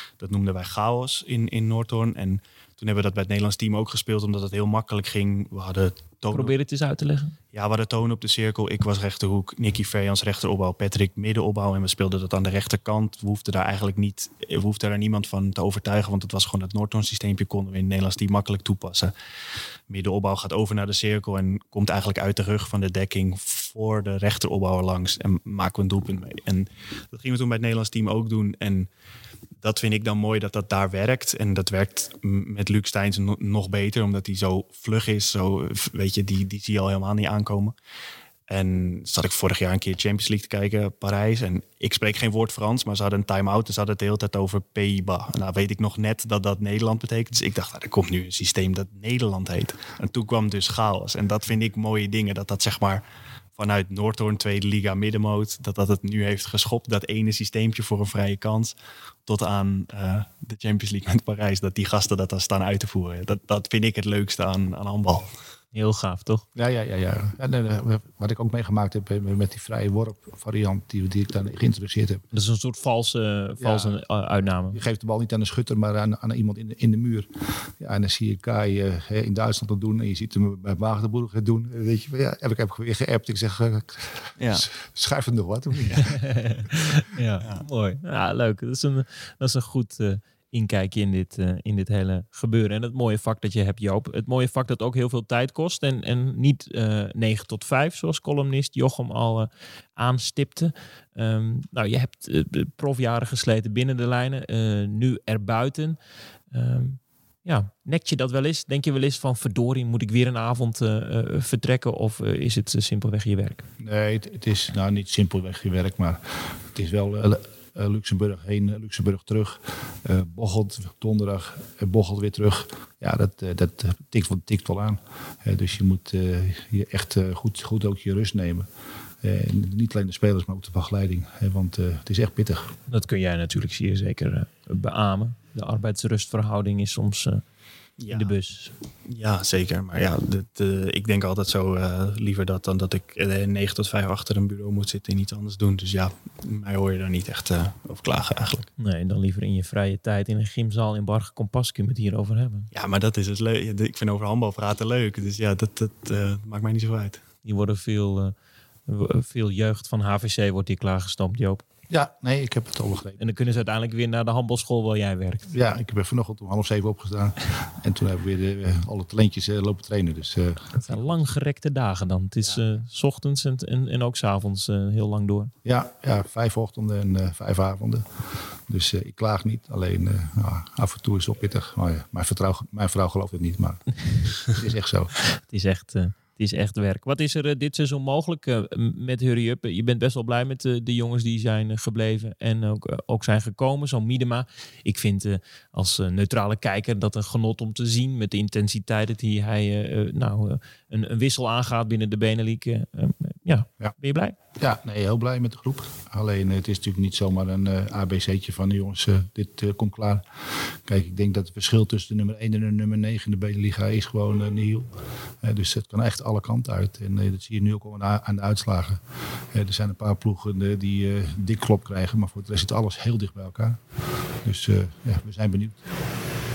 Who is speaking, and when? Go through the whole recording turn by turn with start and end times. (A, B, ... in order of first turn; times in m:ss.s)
0:00.2-0:06.5 A
0:06.3-0:07.4 B
0:07.5-0:19.1 A
0:19.9-0:28.9 A
0:29.6-0:37.7 A
0:38.5-0:53.0 A
0:53.6-1:05.3 A
1:05.7-1:06.4 B
1:06.5-1:12.2 C
1:12.3-1:14.8 B
1:13.6-1:14.0 C
1:14.7-1:26.2 C
1:24.4-1:24.7 A
1:26.1-1:46.0 B
1:46.5-1:53.6 B
1:53.8-2:08.7 C
2:09.2-2:12.7 C
2:12.9-2:17.4 B
2:18.0-2:18.3 A
2:18.1-2:18.7 B
2:19.0-2:28.7 A
2:28.8-2:32.7 B
2:32.7-2:37.2 A
2:37.4-2:38.3 B
2:38.9-2:41.6 B
2:41.9-2:43.2 C
2:43.2-2:45.5 B
2:45.5-2:50.8 C
2:50.8-2:55.5 B
2:55.6-2:58.0 C
2:58.7-3:05.1 C
3:05.3-3:24.4 B
3:24.6-3:39.0 C
3:39.5-3:43.8 C
3:44.4-3:45.8 C